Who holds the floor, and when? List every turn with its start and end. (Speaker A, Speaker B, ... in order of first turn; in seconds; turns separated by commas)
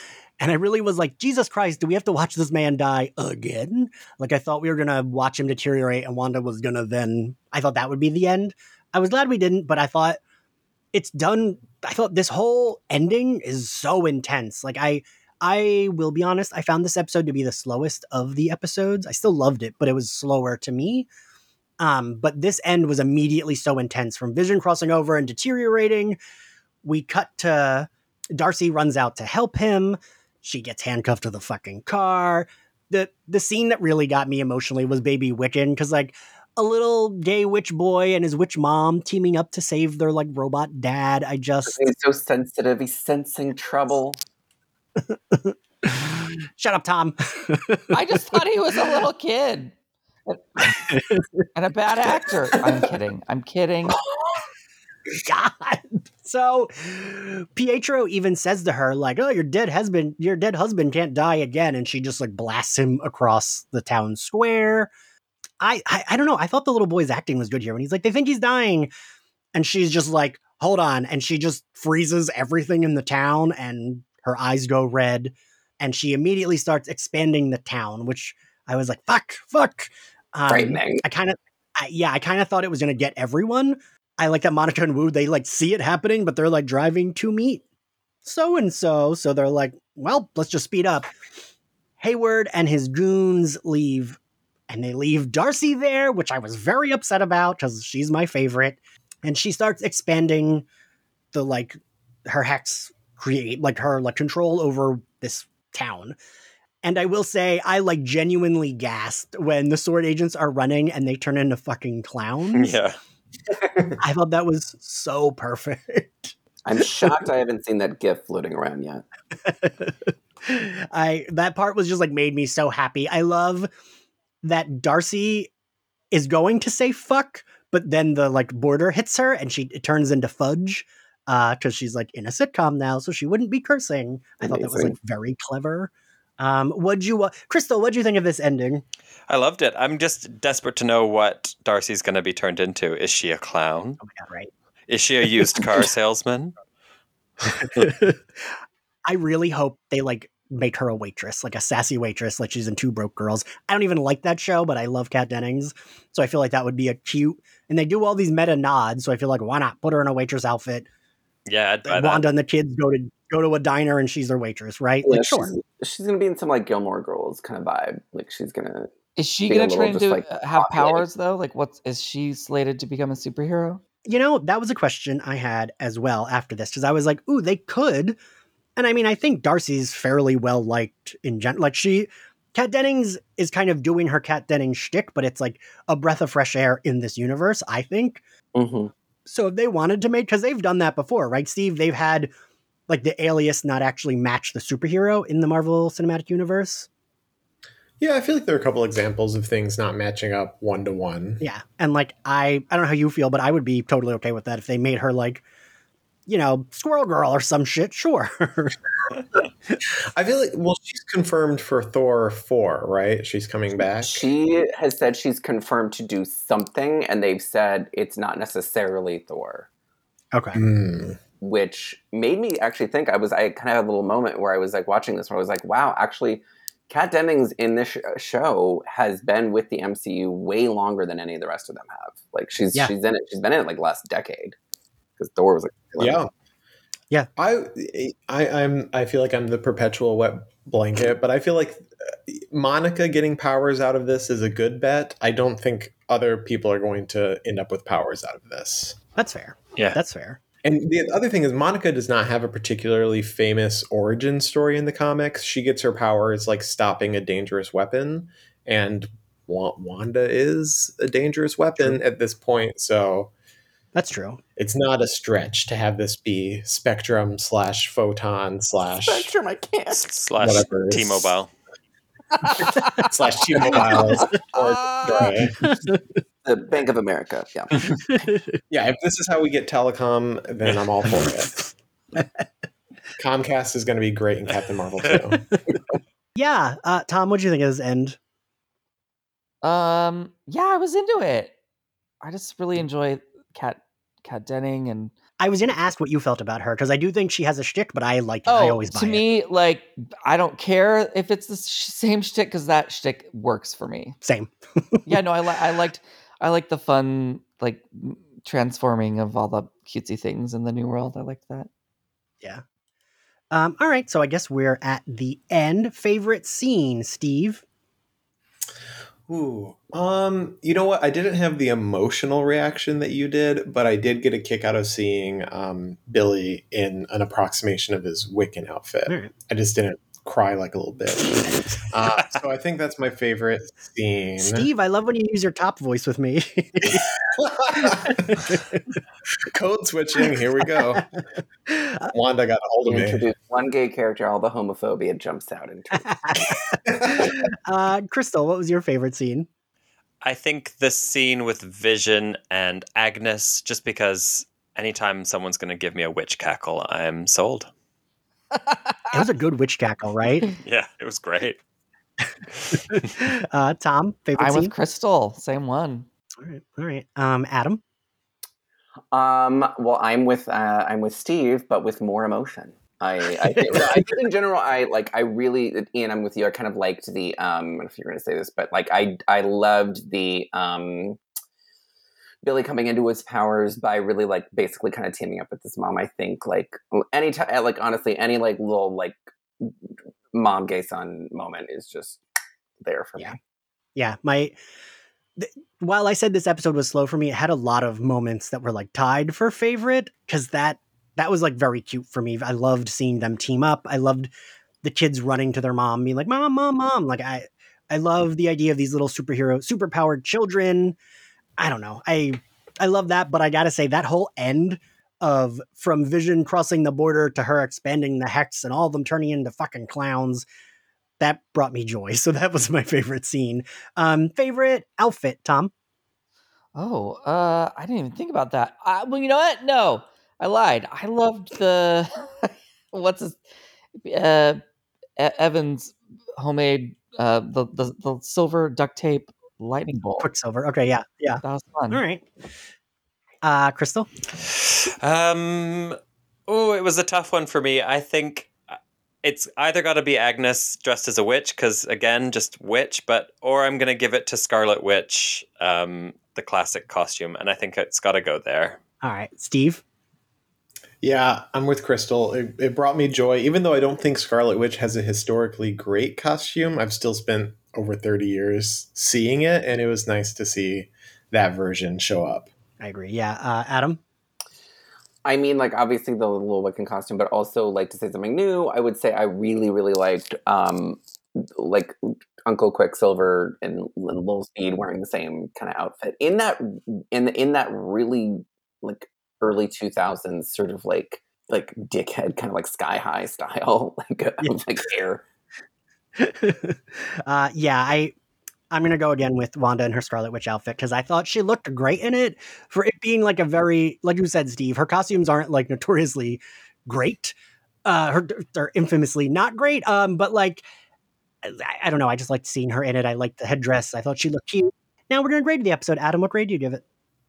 Speaker A: 0.4-10.2, Speaker A: 10.9-21.1, Speaker A: 21.8-26.2, Speaker A: 26.8-41.9, Speaker B: 41.7-44.2, Speaker A: 45.1-48.4, Speaker C: 47.9-49.8, Speaker C: 50.3-50.8, Speaker A: 50.6-51.4, Speaker C: 51.5-54.0, Speaker B: 54.1-54.4, Speaker A: 55.1-64.9, Speaker A: 65.6-68.9, Speaker A: 69.5-87.6, Speaker B: 80.5-81.0, Speaker A: 88.2-91.1, Speaker A: 92.0-100.7, Speaker A: 101.3-106.2, Speaker A: 106.8-112.8, Speaker D: 112.5-113.0, Speaker A: 114.0-116.3, Speaker B: 116.7-119.0, Speaker A: 119.5-123.7, Speaker A: 124.4-125.5, Speaker A: 126.1-138.8, Speaker B: 134.4-134.9, Speaker D: 139.3-144.0, Speaker A: 144.0-144.5, Speaker D: 144.9-146.6, Speaker A: 147.6-148.5, Speaker A: 149.1-160.9, Speaker D: 161.5-162.2, Speaker A: 161.9-165.5, Speaker B: 165.1-168.9, Speaker C: 169.2-173.8, Speaker B: 169.5-171.0, Speaker A: 174.1-178.2, Speaker A: 178.8-188.2, Speaker B: 188.6-188.9, Speaker A: 189.3-192.3, Speaker A: 192.9-196.9, Speaker E: 198.0-201.4, Speaker A: 201.4-205.4, Speaker A: 206.3-208.8, Speaker E: 210.2-214.3, Speaker B: 214.0-219.7, Speaker A: 220.3-220.6, Speaker E: 220.6-221.2, Speaker B: 221.4-234.6, Speaker B: 235.2-236.2, Speaker E: 236.0-236.3, Speaker E: 237.4-249.0, Speaker A: 249.2-250.4, Speaker E: 250.6-263.3, Speaker A: 263.9-264.4, Speaker E: 264.6-269.3, Speaker B: 268.9-270.2, Speaker D: 270.1-271.5, Speaker E: 270.4-271.3, Speaker E: 272.6-275.7, Speaker C: 274.8-275.3, Speaker A: 275.2-276.0, Speaker B: 276.4-277.8, Speaker A: 278.1-278.6, Speaker E: 278.7-281.7, Speaker E: 283.2-285.5, Speaker A: 286.4-288.2, Speaker C: 289.6-291.5, Speaker C: 292.2-295.1, Speaker A: 295.4-299.2, Speaker C: 298.5-304.2, Speaker A: 304.2-305.2, Speaker C: 305.1-311.7, Speaker A: 313.5-317.6, Speaker E: 319.3-334.7, Speaker A: 329.1-329.3, Speaker A: 334.4-337.1, Speaker E: 336.9-338.6, Speaker A: 337.8-338.8, Speaker E: 339.5-341.2, Speaker A: 341.7-342.1, Speaker E: 342.1-343.2, Speaker B: 342.9-346.6, Speaker A: 346.1-349.5, Speaker D: 350.2-357.7, Speaker C: 358.6-358.9, Speaker A: 359.1-360.5, Speaker D: 360.5-361.6, Speaker A: 362.7-364.7, Speaker C: 364.4-366.1, Speaker A: 366.4-367.8, Speaker B: 369.1-381.2, Speaker A: 373.6-374.1, Speaker B: 382.4-389.8, Speaker B: 390.3-392.2, Speaker B: 392.8-393.4, Speaker A: 394.0-394.6, Speaker A: 395.4-404.3, Speaker A: 404.8-411.0, Speaker A: 411.6-420.5, Speaker A: 421.2-425.7, Speaker C: 426.8-433.4, Speaker C: 434.0-434.6, Speaker C: 435.2-440.3, Speaker A: 440.2-442.3, Speaker C: 441.4-442.0, Speaker A: 443.4-444.1, Speaker D: 444.6-446.0, Speaker D: 446.5-458.8, Speaker A: 459.0-459.8, Speaker E: 461.0-472.5, Speaker A: 472.8-474.0, Speaker B: 475.2-495.2, Speaker A: 496.2-498.1, Speaker A: 498.7-510.6, Speaker A: 511.4-516.8